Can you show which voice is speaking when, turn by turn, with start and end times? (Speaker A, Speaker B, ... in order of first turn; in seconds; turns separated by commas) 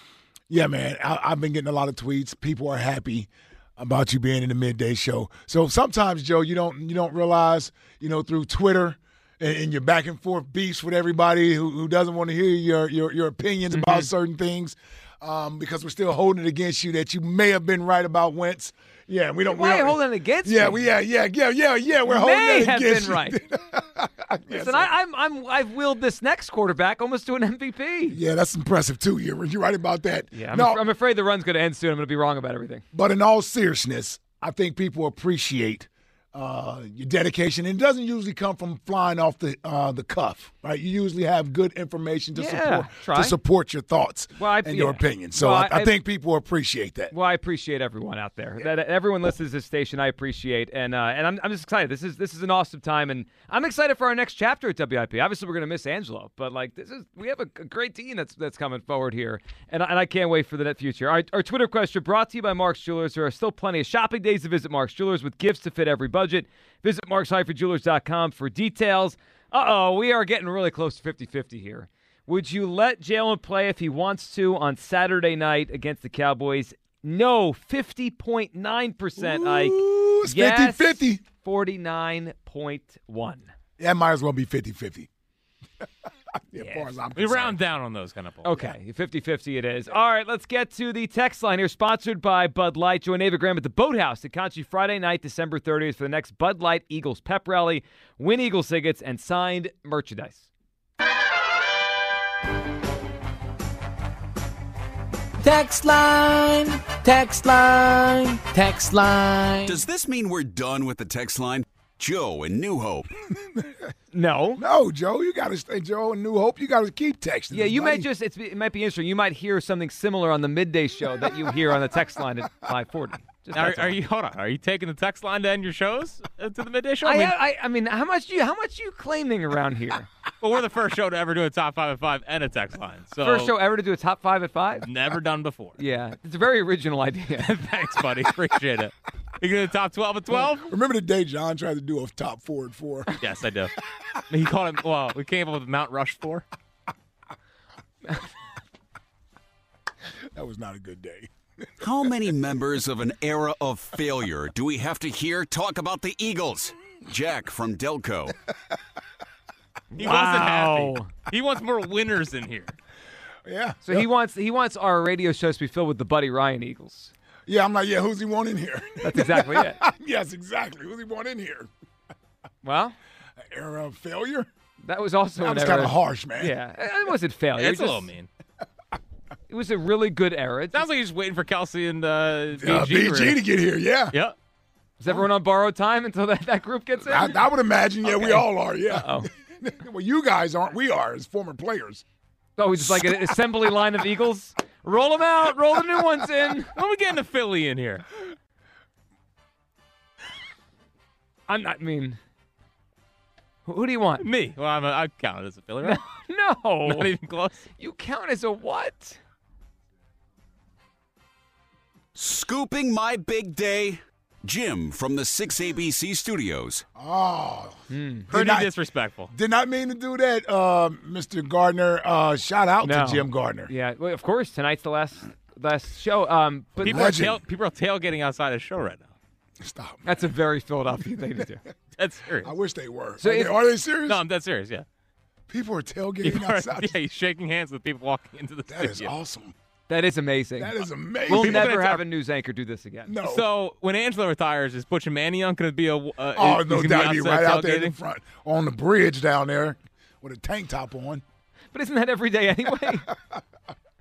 Speaker A: 0.5-24.9, Speaker B: 13.7-14.1, Speaker B: 19.5-20.8, Speaker B: 22.1-23.4, Speaker B: 24.5-28.2, Speaker A: 28.1-30.8, Speaker B: 30.3-32.8, Speaker A: 32.9-47.1, Speaker B: 42.3-43.4, Speaker B: 44.4-45.9, Speaker B: 47.1-83.5, Speaker A: 79.2-81.2, Speaker A: 83.8-85.1, Speaker A: 86.5-87.6, Speaker B: 86.6-86.9, Speaker C: 87.1-88.5, Speaker B: 88.4-100.5, Speaker D: 105.4-109.8, Speaker E: 109.7-113.1, Speaker A: 113.4-113.7, Speaker B: 114.1-114.6, Speaker A: 114.6-118.1, Speaker B: 117.5-124.0, Speaker C: 123.5-127.3, Speaker B: 127.0-130.1, Speaker C: 130.4-133.5, Speaker B: 133.2-134.9, Speaker C: 134.8-135.8, Speaker B: 135.8-137.5, Speaker C: 137.4-140.7, Speaker A: 140.6-143.1, Speaker C: 143.2-143.7, Speaker C: 144.3-146.4, Speaker A: 150.3-151.3, Speaker E: 151.8-158.3, Speaker B: 159.9-161.1, Speaker C: 160.0-162.7, Speaker A: 163.4-164.1, Speaker B: 163.8-167.1, Speaker A: 167.5-171.7, Speaker B: 169.0-169.8, Speaker B: 172.6-172.9, Speaker A: 173.4-174.5, Speaker B: 174.8-178.1, Speaker A: 175.4-176.5, Speaker C: 177.6-178.3, Speaker B: 179.5-180.8, Speaker C: 180.7-183.4, Speaker A: 182.6-184.2, Speaker B: 185.0-187.4, Speaker A: 187.0-192.0, Speaker B: 188.0-189.3, Speaker B: 192.6-196.7, Speaker A: 192.8-193.3, Speaker C: 196.7-198.1, Speaker B: 201.5-202.2, Speaker B: 203.7-204.3, Speaker C: 204.2-206.0, Speaker B: 205.8-207.1, Speaker C: 206.8-207.7, Speaker B: 207.8-209.2, Speaker E: 212.1-216.8, Speaker A: 216.9-218.7, Speaker B: 217.9-218.3, Speaker C: 218.3-219.3, Speaker A: 219.3-223.7, Speaker B: 222.8-227.0, Speaker A: 226.8-227.4, Speaker C: 226.8-229.1, Speaker A: 229.6-230.0, Speaker B: 230.0-231.6, Speaker C: 232.0-232.5, Speaker A: 232.4-234.2, Speaker B: 233.2-233.6, Speaker C: 234.1-234.8, Speaker A: 235.5-237.0, Speaker C: 236.2-239.1, Speaker A: 238.7-239.5, Speaker B: 239.9-243.1, Speaker A: 240.6-241.8, Speaker C: 241.3-242.0, Speaker A: 243.1-243.4, Speaker C: 243.2-247.9, Speaker A: 246.3-251.2, Speaker B: 251.7-253.1